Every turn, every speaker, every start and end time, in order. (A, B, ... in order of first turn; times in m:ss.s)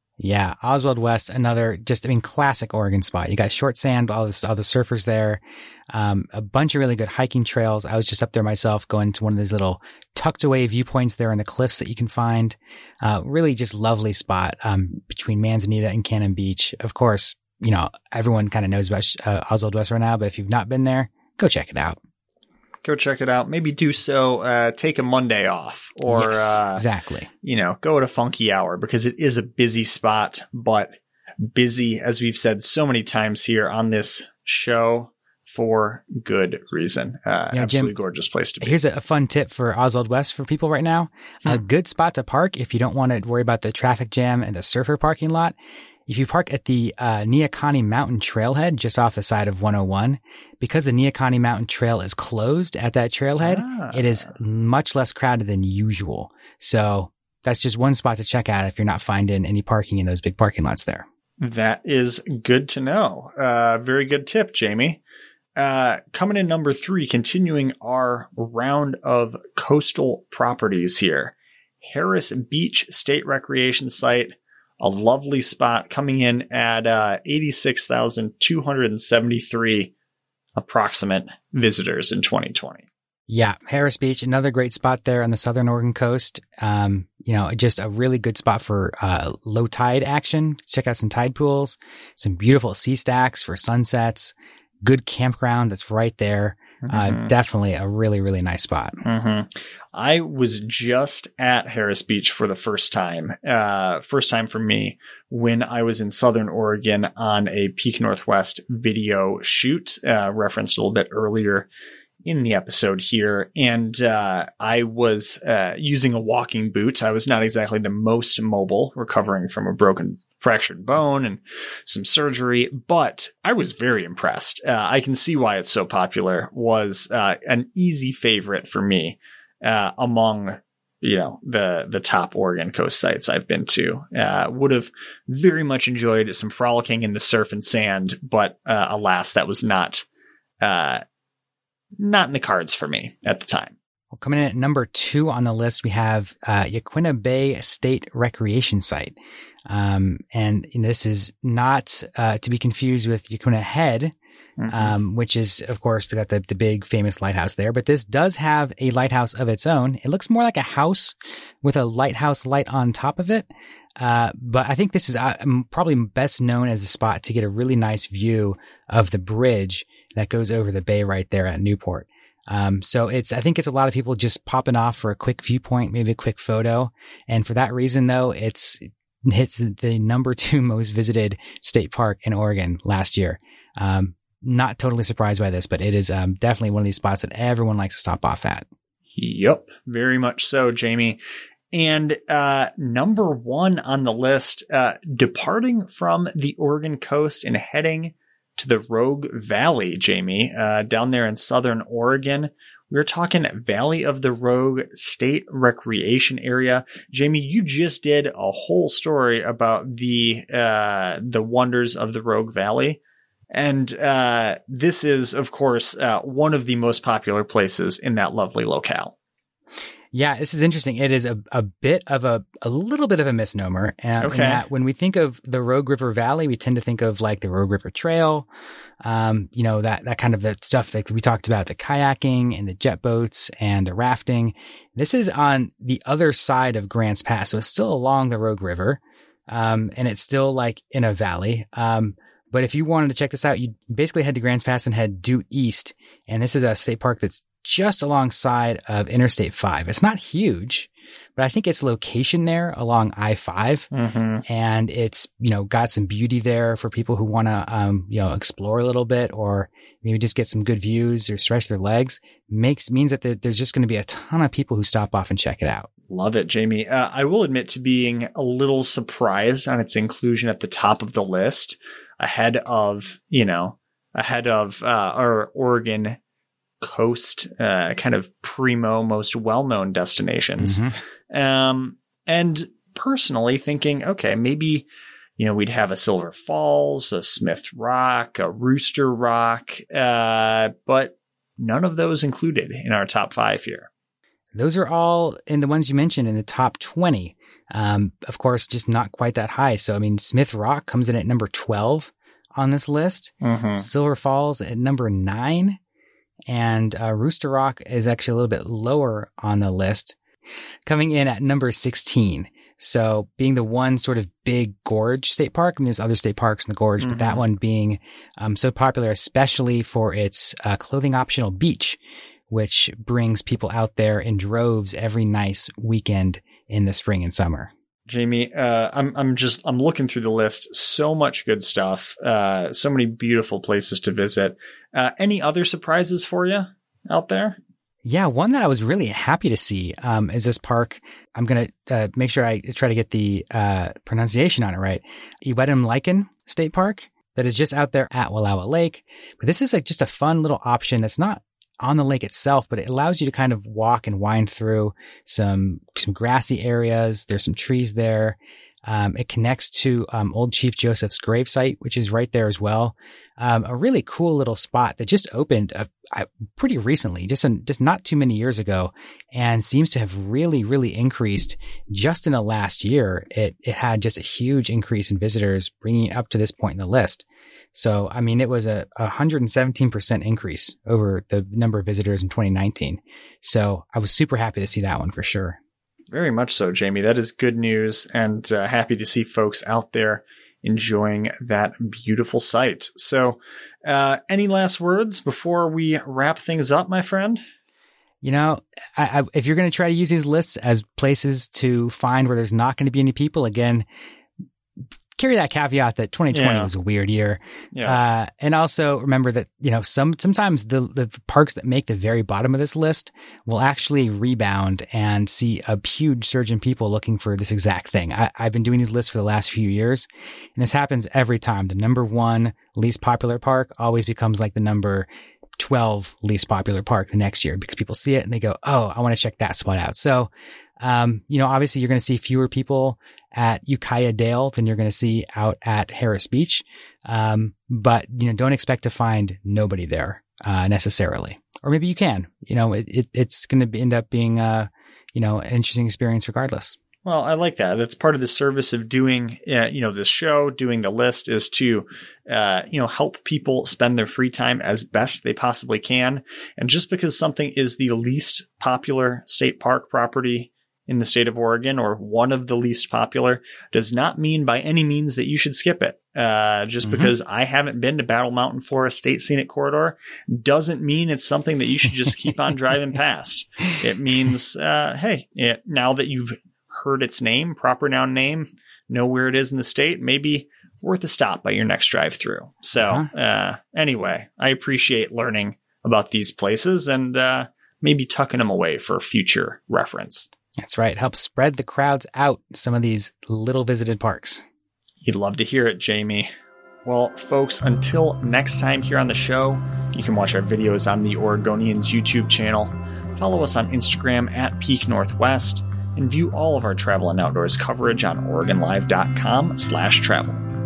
0:00.2-0:22.0 A
0:22.8-0:26.8 B
0:26.1-0:27.3 A
0:27.4-0:38.8 B
0:37.5-0:37.9 A
0:38.6-0:45.6 A
0:46.1-1:01.1 A
0:53.4-0:54.3 B
1:01.4-1:05.0 B
1:05.6-1:19.9 B
1:20.6-1:22.8 B
1:23.3-1:39.0 A
1:36.8-1:37.3 B
1:39.0-1:51.7 B
1:52.2-2:20.1 B
2:20.6-2:21.0 B
2:22.0-2:23.8 B
2:24.1-2:29.2 A
2:29.7-2:34.1 A
2:34.6-2:35.0 B
2:34.7-2:43.5 A
2:44.0-3:08.7 A
3:09.2-3:11.2 B
3:11.7-3:33.0 B
3:33.5-3:39.1 B
3:40.1-3:48.5 A
3:44.2-3:44.7 B
3:49.0-4:13.9 A
4:13.9-4:14.4 B
4:14.4-4:25.9 A
4:26.1-4:36.2 B
4:36.8-4:44.9 B
4:40.6-4:40.9 A
4:45.4-4:53.9 B
4:54.6-5:05.8 A
5:03.4-5:03.9 B
5:06.5-5:10.2 A
5:10.9-5:22.0 A
5:17.0-5:17.4 B
5:22.5-5:27.7 A
5:28.1-5:37.6 B
5:38.0-6:25.6 A
6:26.1-6:37.4 B
6:38.2-6:43.8 A
6:45.2-7:05.1 A
6:46.3-6:46.7 B
6:47.7-6:48.0 B
7:05.6-7:10.3 A
7:10.8-7:26.8 A
7:27.0-8:10.3 B
7:46.8-7:47.1 A
8:02.8-8:03.1 A
8:10.6-8:14.4 A
8:15.0-8:16.3 B
8:16.8-8:30.4 B